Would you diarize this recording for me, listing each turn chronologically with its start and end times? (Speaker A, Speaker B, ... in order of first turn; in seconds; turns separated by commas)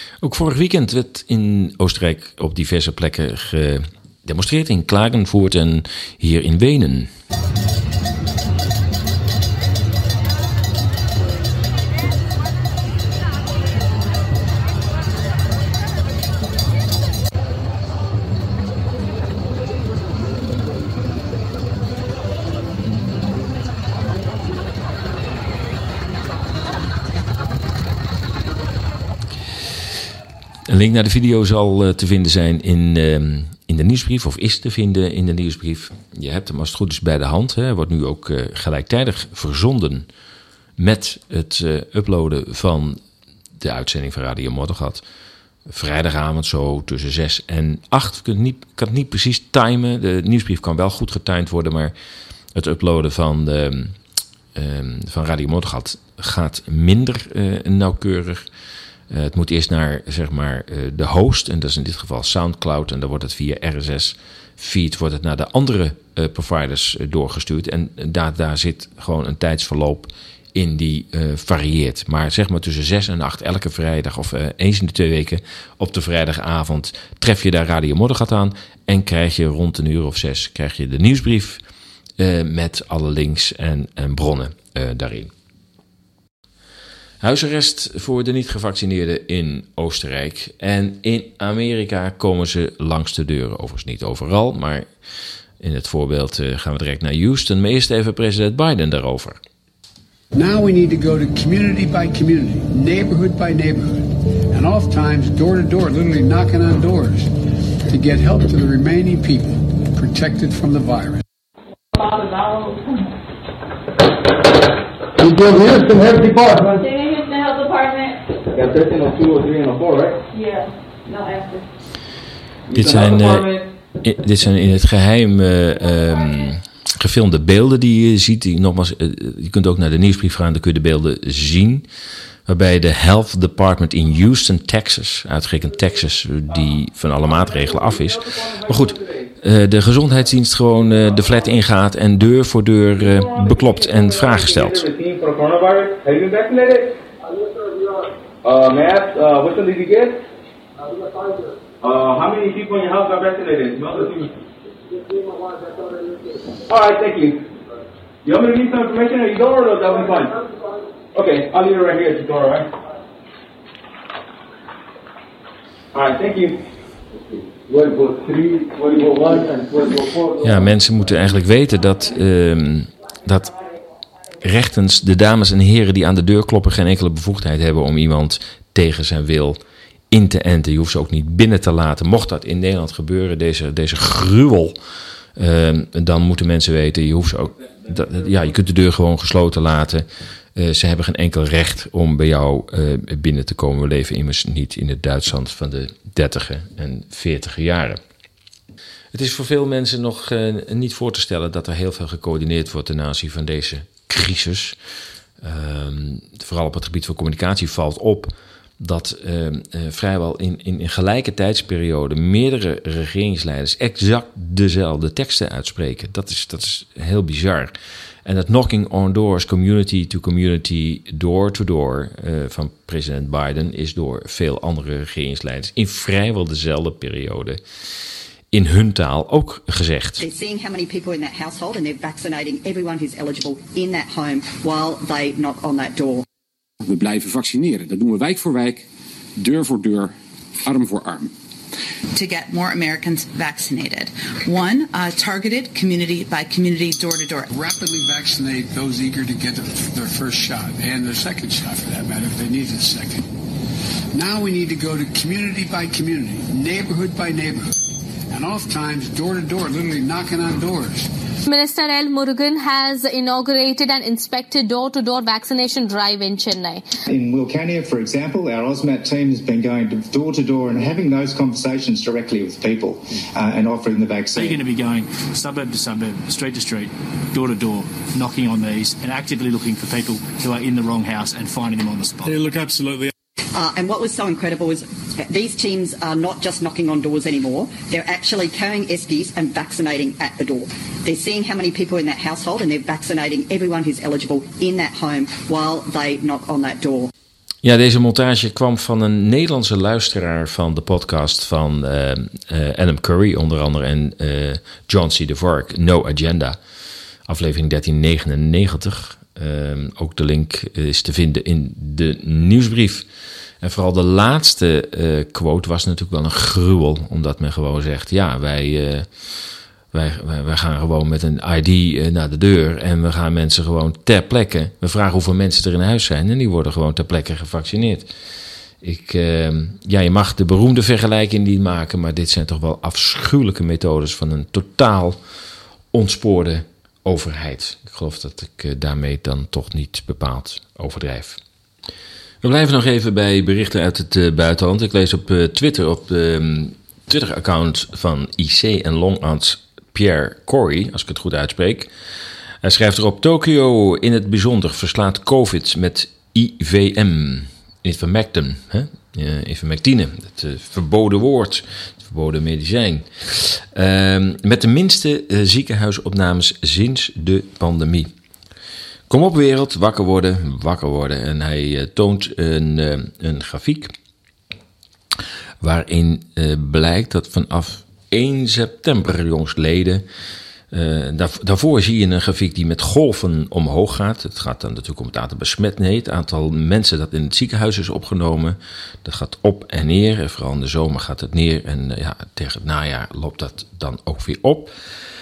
Speaker A: 0.2-7.1, Speaker A: 30.7-40.1, Speaker A: 40.8-43.0, Speaker A: 43.6-45.0, Speaker A: 45.7-51.9, Speaker A: 52.5-54.0, Speaker A: 54.5-58.5, Speaker A: 59.1-81.6, Speaker A: 82.2-85.3, Speaker A: 87.2-94.9, Speaker A: 95.6-99.4, Speaker B: 100.3-107.3, Speaker B: 107.9-111.2, Speaker C: 112.0-112.7, Speaker D: 115.4-116.7, Speaker E: 116.9-118.1, Speaker D: 118.5-120.2, Speaker E: 121.1-121.6, Speaker D: 122.7-123.7, Speaker A: 122.7-123.5, Speaker A: 124.0-131.8, Speaker A: 132.5-144.9, Speaker D: 144.2-147.0, Speaker D: 148.4-150.2, Speaker D: 151.8-154.4, Speaker D: 156.7-157.5, Speaker D: 158.2-160.4, Speaker D: 161.1-162.7, Speaker D: 165.9-166.6, Speaker D: 167.7-170.5, Speaker A: 170.4-173.5, Speaker A: 174.4-179.6, Speaker A: 180.1-184.8, Speaker A: 185.4-198.0, Speaker A: 199.1-204.8, Speaker A: 205.4-217.7, Speaker A: 218.2-227.6, Speaker A: 228.5-230.2, Speaker F: 230.2-236.2, Speaker G: 236.8-238.8, Speaker G: 239.4-241.3, Speaker E: 242.2-247.5, Speaker B: 247.5-253.3, Speaker B: 254.1-257.8, Speaker B: 258.3-261.1, Speaker H: 261.5-266.8, Speaker I: 267.1-274.6, Speaker C: 274.4-282.4, Speaker F: 283.5-297.1, Speaker A: 297.6-306.6, Speaker A: 307.3-313.1, Speaker A: 313.6-319.1, Speaker A: 319.9-328.1, Speaker A: 328.8-335.2, Speaker A: 335.9-341.4, Speaker A: 342.4-351.9, Speaker A: 352.6-368.1, Speaker A: 369.1-373.9, Speaker A: 375.6-380.0, Speaker A: 380.7-394.7